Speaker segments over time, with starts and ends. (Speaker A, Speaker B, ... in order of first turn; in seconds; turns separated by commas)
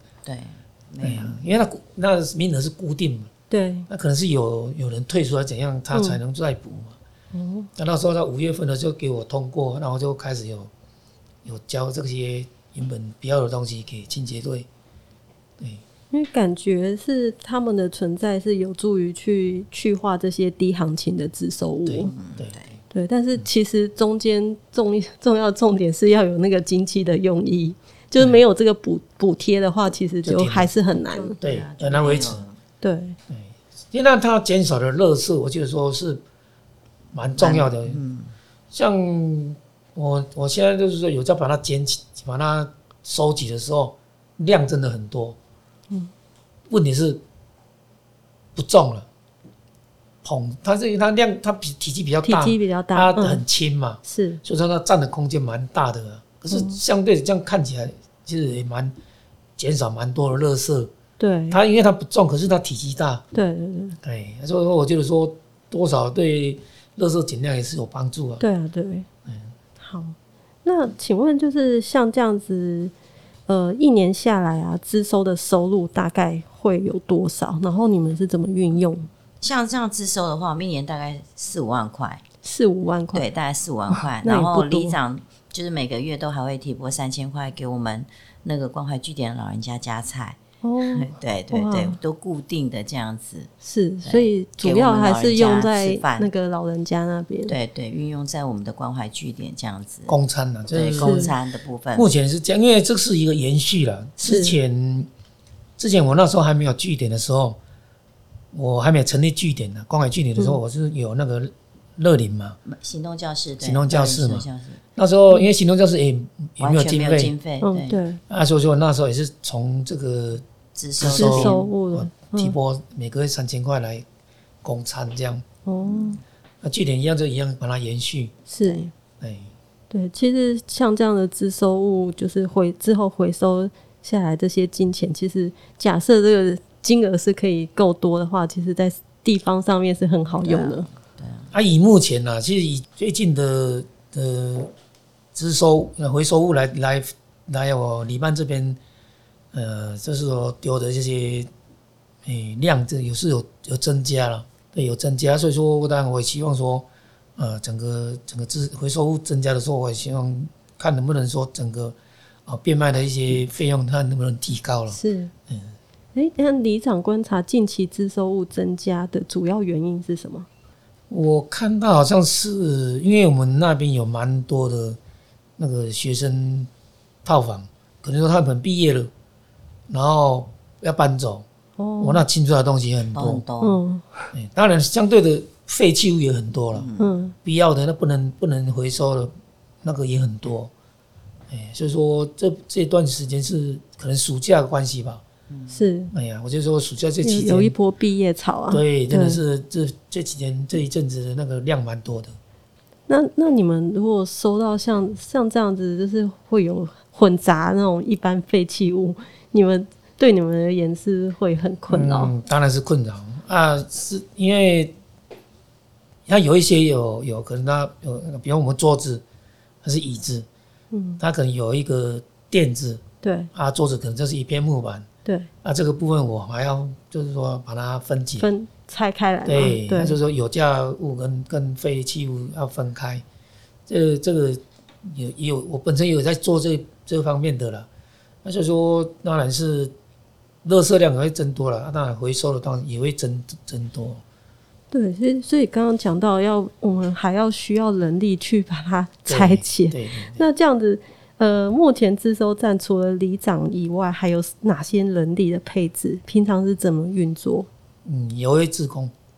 Speaker A: 0.2-1.4, Speaker B: 1.0-3.3, Speaker C: 3.5-3.9, Speaker B: 3.9-7.0, Speaker C: 5.9-6.2, Speaker C: 7.3-7.7, Speaker B: 7.8-10.7, Speaker B: 11.4-14.7, Speaker C: 16.1-22.1, Speaker B: 21.9-22.6, Speaker A: 22.1-22.7, Speaker C: 22.9-31.4, Speaker B: 30.2-30.7, Speaker A: 31.1-32.6, Speaker B: 31.4-32.5, Speaker C: 32.8-33.2, Speaker B: 33.3-36.2, Speaker B: 37.1-38.0, Speaker A: 37.4-38.3, Speaker B: 38.7-45.4, Speaker B: 46.7-47.2, Speaker B: 48.5-49.1, Speaker B: 50.2-58.9, Speaker C: 52.2-53.4, Speaker C: 54.0-54.4, Speaker C: 56.5-56.8, Speaker B: 59.6-60.9, Speaker C: 61.2-61.6, Speaker B: 61.5-63.2, Speaker C: 63.3-64.0, Speaker B: 64.0-68.4, Speaker C: 68.4-69.1, Speaker B: 69.3-69.5, Speaker C: 69.8-72.9, Speaker C: 73.5-79.1, Speaker A: 79.4-82.2, Speaker C: 82.4-83.3, Speaker A: 83.1-93.5, Speaker C: 83.9-85.0, Speaker C: 90.6-92.0, Speaker C: 93.6-97.5, Speaker A: 94.0-96.3, Speaker A: 97.5-100.2, Speaker B: 100.1-101.3, Speaker A: 100.7-102.1, Speaker C: 101.0-101.3, Speaker B: 102.0-105.1, Speaker C: 104.2-104.6, Speaker B: 105.8-107.6, Speaker B: 108.5-112.6, Speaker A: 112.7-114.8, Speaker B: 113.6-117.3, Speaker A: 116.6-118.0, Speaker C: 117.6-118.2, Speaker B: 118.3-120.4, Speaker A: 120.8-121.7, Speaker B: 121.0-124.0, Speaker C: 121.2-122.6, Speaker B: 124.6-125.5, Speaker C: 125.7-126.2, Speaker A: 125.8-126.2, Speaker B: 126.6-128.4, Speaker C: 128.5-128.9, Speaker B: 129.2-129.5, Speaker C: 129.9-140.9, Speaker A: 140.4-141.5, Speaker B: 141.5-144.7, Speaker B: 145.3-148.8, Speaker B: 149.5-151.5, Speaker B: 152.2-165.7, Speaker C: 164.9-165.3, Speaker C: 166.2-170.5, Speaker B: 171.1-175.0, Speaker B: 175.6-176.7, Speaker B: 177.2-179.1, Speaker B: 179.9-181.5, Speaker C: 181.8-182.2, Speaker B: 182.0-183.4, Speaker A: 183.1-183.8, Speaker C: 183.6-184.3, Speaker B: 184.3-186.9, Speaker A: 186.7-187.1, Speaker C: 187.0-187.3, Speaker B: 187.4-189.3, Speaker B: 189.8-190.7, Speaker B: 191.5-195.2, Speaker A: 195.5-195.8, Speaker C: 195.7-196.1, Speaker B: 196.1-197.7, Speaker C: 197.2-199.4, Speaker B: 198.7-202.4, Speaker C: 203.1-212.3, Speaker B: 211.9-215.0, Speaker B: 216.3-219.2, Speaker B: 219.8-220.5, Speaker C: 220.9-221.2, Speaker B: 221.2-223.0, Speaker C: 223.2-223.5, Speaker B: 223.5-225.1, Speaker B: 225.6-228.5, Speaker C: 228.4-230.2, Speaker B: 229.5-233.2, Speaker B: 233.9-237.9, Speaker B: 238.4-239.9, Speaker B: 240.6-244.2, Speaker C: 244.9-257.7, Speaker B: 249.3-250.5, Speaker B: 258.1-259.1